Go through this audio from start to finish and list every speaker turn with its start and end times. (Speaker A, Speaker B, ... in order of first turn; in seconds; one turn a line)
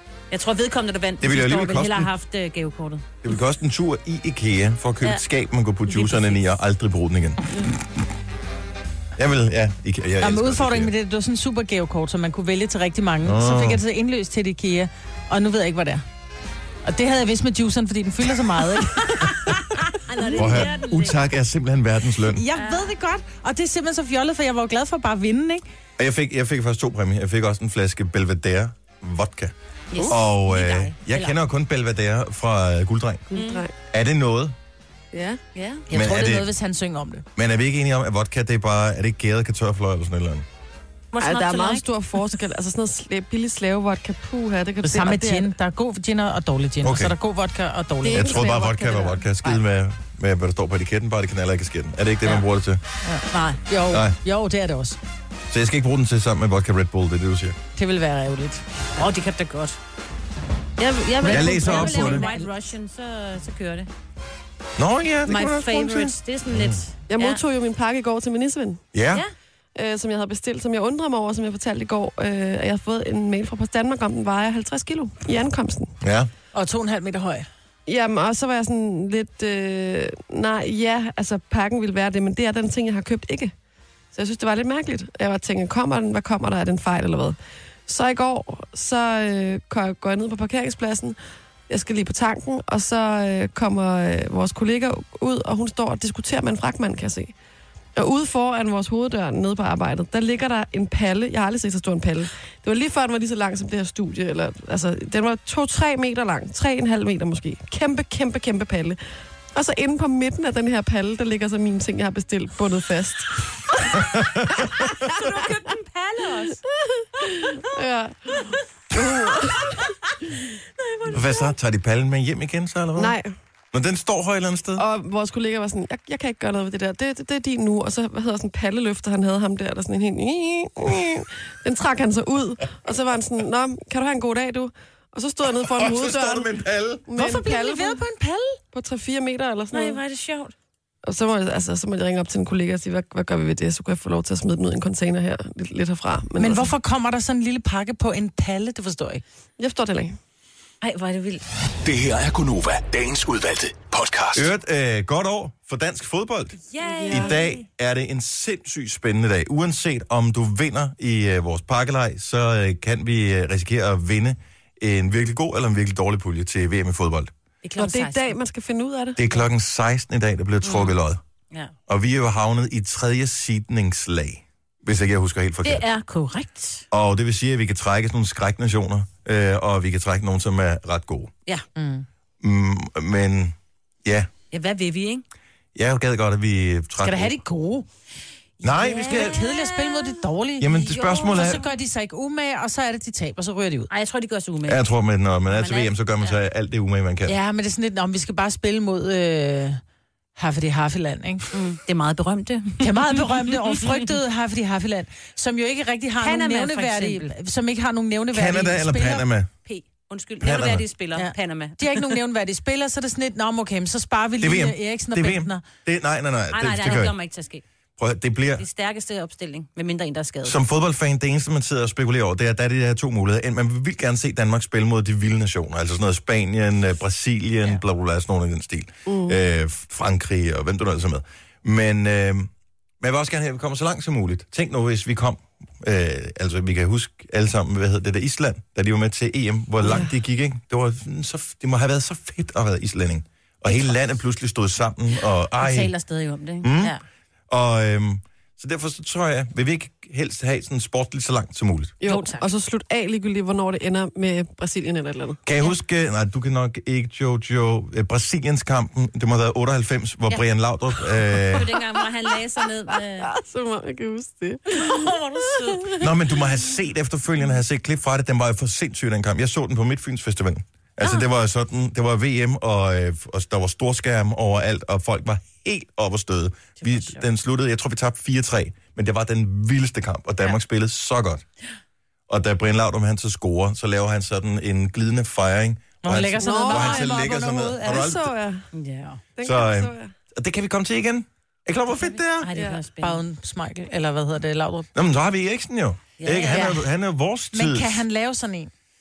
Speaker A: 0.3-3.2
Speaker B: 1.2-2.1
Speaker B: 3.2-7.8
Speaker A: 5.8-6.6
Speaker B: 9.2-10.9
Speaker C: 10.2-16.0
Speaker B: 13.2-13.8
Speaker C: 16.8-19.3
Speaker A: 19.2-21.2
Speaker B: 20.4-22.4
Speaker C: 22.3-25.6
Speaker A: 22.6-22.9
Speaker B: 26.0-29.5
Speaker A: 29.9-31.4
Speaker B: 30.1-33.3
Speaker D: 33.3-33.7
Speaker A: 33.3-33.6
Speaker B: 33.9-34.5
Speaker D: 35.1-35.4
Speaker A: 35.5-35.9
Speaker C: 35.9-37.3
Speaker B: 35.9-36.5
Speaker B: 37.4-40.5
Speaker A: 41.1-41.9
Speaker D: 41.2-45.5
Speaker C: 44.8-48.4
Speaker B: 46.8-47.1
Speaker D: 48.0-49.3
Speaker B: 48.1-52.8
Speaker C: 53.0-55.0
Speaker A: 53.3-53.6
Speaker B: 53.9-54.2
Speaker B: 55.5-57.6
Speaker C: 57.8-58.6
Speaker A: 59.0-59.8
Speaker A: 60.8-63.9
Speaker C: 61.2-62.5
Speaker B: 61.2-62.2
Speaker B: 64.8-66.8
Speaker A: 65.2-67.4
Speaker D: 67.1-68.8
Speaker B: 68.9-69.2
Speaker D: 69.8-75.9
Speaker B: 76.0-76.3
Speaker C: 76.5-77.5
Speaker D: 77.9-83.5
Speaker D: 84.1-91.2
Speaker D: 91.7-97.3
Speaker D: 98.0-109.0
Speaker D: 109.5-113.9
Speaker B: 113.9-114.7
Speaker D: 114.7-115.5
Speaker A: 115.0-116.6
Speaker D: 117.0-119.8
Speaker A: 118.4-120.2
Speaker A: 120.8-121.5
Speaker B: 121.1-123.2
Speaker D: 123.0-123.3
Speaker B: 123.7-124.8
Speaker D: 124.8-136.5
Speaker B: 135.6-137.0
Speaker D: 137.1-138.0
Speaker C: 137.2-138.6
Speaker D: 138.7-140.0
Speaker A: 139.7-140.5
Speaker D: 141.1-146.7
Speaker C: 146.4-149.2
Speaker D: 149.6-150.2
Speaker A: 150.8-151.4
Speaker E: 151.8-154.5
Speaker B: 154.3-167.3
Speaker A: 156.7-157.6
Speaker D: 156.8-157.4
Speaker A: 167.6-168.3
Speaker D: 167.8-169.2
Speaker B: 169.2-171.2
Speaker A: 170.6-171.0
Speaker B: 171.9-175.8
Speaker A: 175.6-176.9
Speaker B: 176.9-181.3
Speaker C: 181.8-182.1
Speaker B: 182.4-184.3
Speaker A: 184.5-185.2
Speaker B: 185.8-187.4
Speaker C: 187.0-187.9
Speaker B: 188.6-189.4
Speaker A: 188.8-189.8
Speaker C: 188.8-193.9
Speaker B: 190.6-191.6
Speaker A: 193.9-194.9
Speaker B: 194.7-197.4
Speaker A: 195.5-196.4
Speaker C: 197.3-199.8
Speaker C: 200.4-201.5
Speaker A: 201.5-203.2
Speaker C: 202.8-209.2
Speaker A: 206.2-207.3
Speaker B: 208.3-209.5
Speaker A: 209.7-212.2
Speaker B: 210.4-210.8
Speaker C: 211.2-215.7
Speaker B: 214.4-217.2
Speaker A: 216.5-217.6
Speaker B: 218.0-218.6
Speaker A: 218.6-220.6
Speaker B: 220.4-232.5
Speaker D: 229.1-229.4
Speaker B: 233.0-245.9
Speaker D: 239.8-240.1
Speaker A: 243.7-244.0
Speaker A: 245.6-247.0
Speaker B: 246.6-246.9
Speaker B: 247.5-252.0
Speaker D: 252.0-255.4
Speaker A: 252.0-252.5
Speaker B: 255.5-261.7
Speaker A: 261.4-263.3
Speaker D: 262.9-266.1
Speaker A: 264.7-266.0
Speaker B: 266.0-281.4
Speaker A: 276.8-277.3
Speaker B: 282.3-288.3
Speaker C: 286.0-288.1
Speaker D: 286.4-287.3
Speaker D: 287.8-288.7
Speaker A: 288.7-289.2
Speaker D: 289.4-290.1
Speaker B: 289.4-292.5
Speaker A: 291.9-293.2
Speaker D: 292.5-292.8
Speaker C: 293.0-294.9
Speaker B: 294.9-298.1
Speaker A: 296.2-296.8
Speaker C: 296.5-296.8
Speaker C: 297.5-298.7